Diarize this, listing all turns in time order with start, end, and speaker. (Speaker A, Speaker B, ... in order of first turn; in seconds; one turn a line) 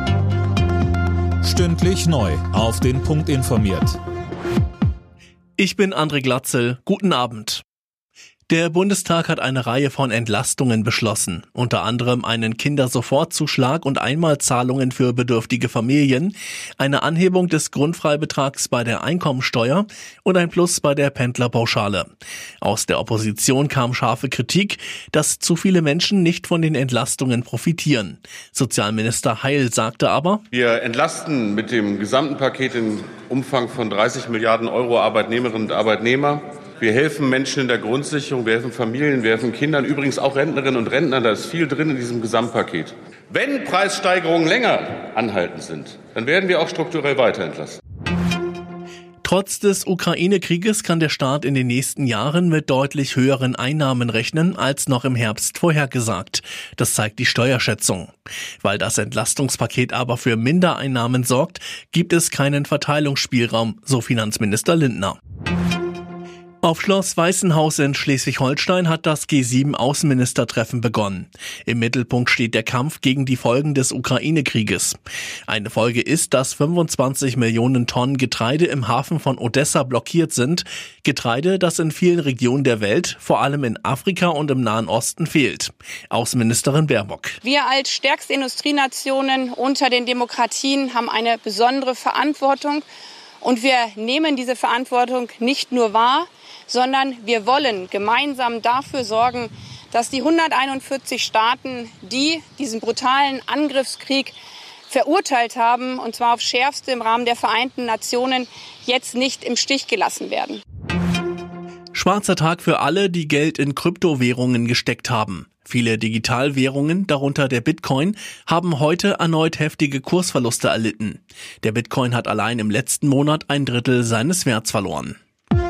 Speaker A: 1.4-4.0
Speaker B: 5.6-7.6
Speaker B: 8.5-22.1
Speaker B: 22.6-30.4
Speaker C: 30.5-47.8
Speaker B: 49.2-65.2
Speaker B: 66.6-87.4
Speaker D: 87.4-92.8
Speaker D: 93.4-104.3
Speaker D: 104.9-110.6
Speaker B: 111.9-125.2